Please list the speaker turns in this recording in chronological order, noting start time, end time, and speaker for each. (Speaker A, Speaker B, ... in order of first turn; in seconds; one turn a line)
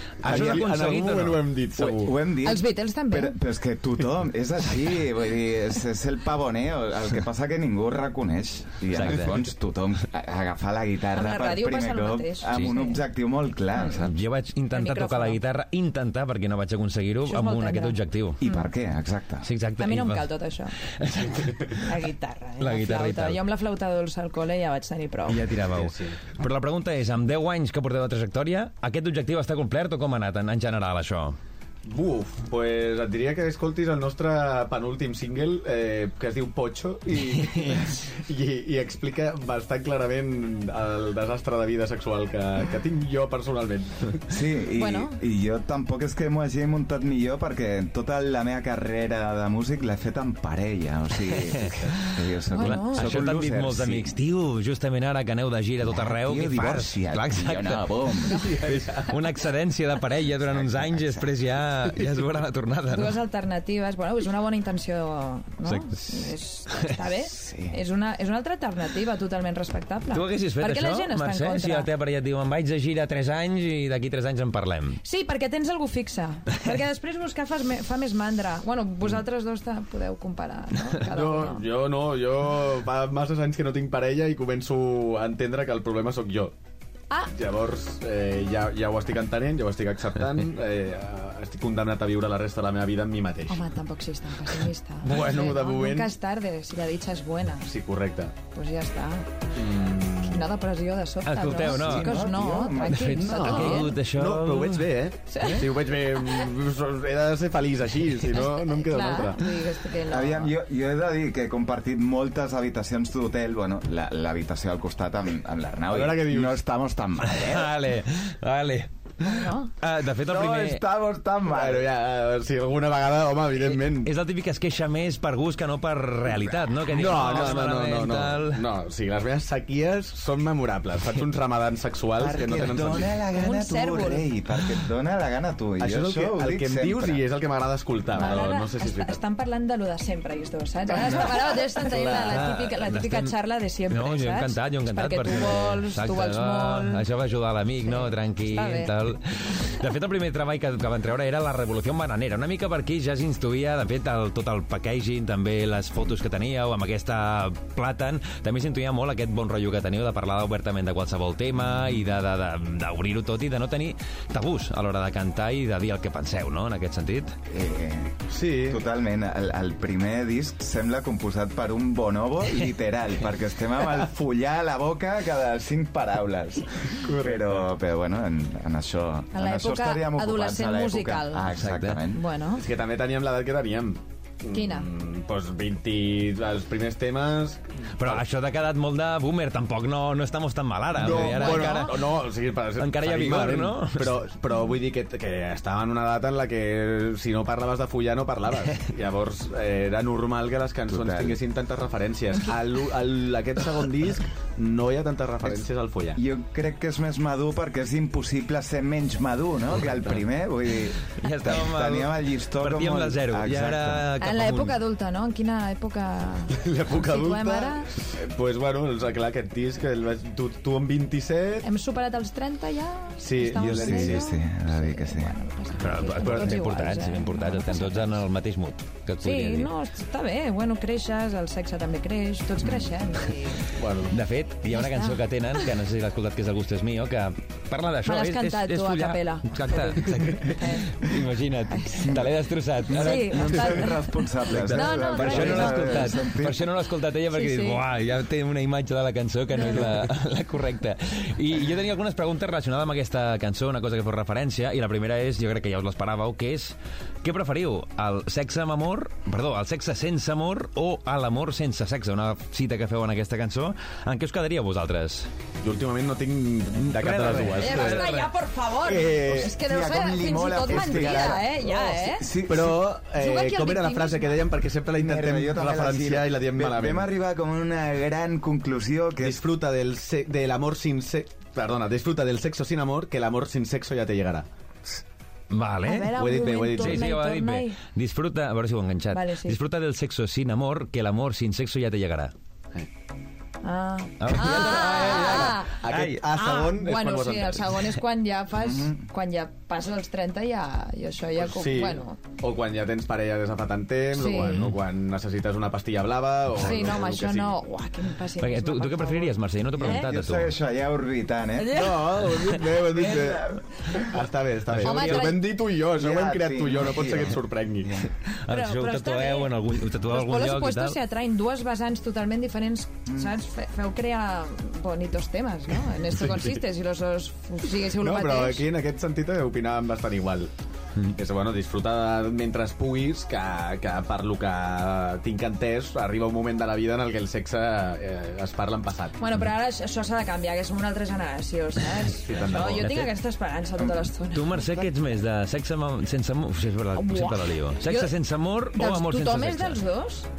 Speaker A: 0.2-1.5
Speaker B: 0.2-2.2
Speaker C: 0.3-0.7
Speaker C: 1.8-14.1
Speaker D: 2.4-3.4
Speaker A: 8.9-9.4
Speaker D: 11.1-13.0
Speaker D: 13.7-14.0
Speaker A: 14.0-18.4
Speaker D: 14.7-15.4
Speaker D: 17.2-18.7
Speaker C: 18.4-19.5
Speaker A: 19.4-22.0
Speaker D: 19.8-20.8
Speaker D: 21.7-25.5
Speaker A: 22.6-23.4
Speaker A: 25.3-31.4
Speaker B: 25.7-26.2
Speaker B: 31.9-44.3
Speaker A: 37.2-37.9
Speaker C: 44.3-54.2
Speaker D: 44.7-45.2
Speaker A: 51.3-63.2
Speaker B: 51.7-51.9
Speaker D: 52.5-53.2
Speaker C: 55.8-58.5
Speaker B: 58.3-59.1
Speaker C: 60.5-61.3
Speaker D: 62.9-71.9
Speaker A: 65.7-66.9
Speaker C: 67.3-67.8
Speaker A: 70.1-75.0
Speaker D: 75.0-81.7
Speaker B: 81.0-86.5
Speaker B: 87.3-93.6
Speaker D: 93.5-97.7
Speaker B: 95.0-96.1
Speaker B: 97.7-98.3
Speaker D: 98.5-99.3
Speaker B: 99.5-100.5
Speaker D: 100.2-104.0
Speaker A: 101.3-102.2
Speaker C: 101.7-103.8
Speaker A: 102.8-105.0
Speaker B: 103.3-109.4
Speaker D: 105.3-106.4
Speaker D: 108.3-110.5
Speaker C: 110.1-117.7
Speaker B: 115.9-116.6
Speaker A: 117.2-120.8
Speaker D: 119.2-119.7
Speaker C: 120.3-121.9
Speaker B: 121.5-124.1
Speaker A: 123.6-128.7
Speaker B: 126.9-133.2
Speaker C: 127.1-127.6
Speaker C: 132.2-137.2
Speaker D: 133.3-134.3
Speaker B: 135.8-139.2
Speaker D: 138.1-147.0
Speaker B: 141.0-142.5
Speaker A: 142.1-143.3
Speaker A: 143.9-167.4
Speaker D: 147.8-148.9
Speaker C: 167.5-182.2
Speaker B: 168.3-168.8
Speaker B: 177.0-177.7
Speaker D: 179.3-181.5
Speaker A: 181.5-182.0
Speaker D: 182.1-182.7
Speaker B: 182.6-188.2
Speaker D: 184.5-184.9
Speaker A: 188.0-192.2
Speaker B: 190.9-206.2
Speaker D: 191.0-192.0
Speaker A: 192.8-194.2
Speaker C: 200.9-201.4
Speaker C: 206.2-214.1
Speaker A: 211.1-214.8
Speaker D: 214.2-217.9
Speaker B: 216.5-221.7
Speaker D: 221.6-228.2
Speaker B: 223.2-224.3
Speaker C: 223.5-225.3
Speaker A: 225.8-229.7
Speaker B: 226.1-226.7
Speaker D: 229.2-233.7
Speaker B: 233.8-234.2
Speaker A: 234.1-243.8
Speaker D: 234.7-235.7
Speaker D: 238.1-240.9
Speaker D: 241.7-242.2
Speaker C: 242.9-246.7
Speaker D: 242.9-246.3
Speaker A: 244.5-265.3
Speaker D: 247.3-247.8
Speaker D: 249.5-249.9
Speaker B: 265.6-268.1
Speaker A: 266.8-268.3
Speaker D: 267.6-272.3
Speaker B: 268.8-269.6
Speaker C: 269.3-272.9
Speaker B: 270.7-271.9
Speaker B: 272.5-277.1
Speaker D: 273.2-274.5
Speaker C: 274.9-279.4
Speaker B: 279.2-284.5
Speaker A: 285.5-292.3
Speaker D: 285.8-287.8
Speaker B: 286.1-287.1
Speaker D: 289.1-289.6
Speaker D: 293.6-302.2
Speaker A: 294.2-296.2
Speaker B: 294.3-297.8
Speaker C: 298.6-299.0
Speaker B: 301.4-307.6
Speaker D: 304.1-304.6
Speaker A: 304.4-304.8
Speaker A: 306.6-306.9
Speaker D: 306.6-310.1
Speaker A: 308.4-310.6
Speaker C: 309.8-311.8
Speaker D: 311.6-312.2
Speaker B: 311.6-318.0
Speaker C: 312.9-314.0
Speaker A: 314.7-315.4
Speaker D: 314.8-315.5
Speaker C: 315.9-318.1
Speaker A: 318.3-321.0
Speaker D: 318.5-319.5
Speaker D: 320.1-328.7
Speaker C: 323.1-323.3
Speaker B: 328.0-330.5
Speaker B: 331.1-339.2
Speaker D: 339.2-344.8
Speaker B: 342.2-342.9
Speaker A: 342.5-343.1
Speaker A: 344.3-349.8
Speaker D: 346.9-348.1
Speaker D: 348.7-350.3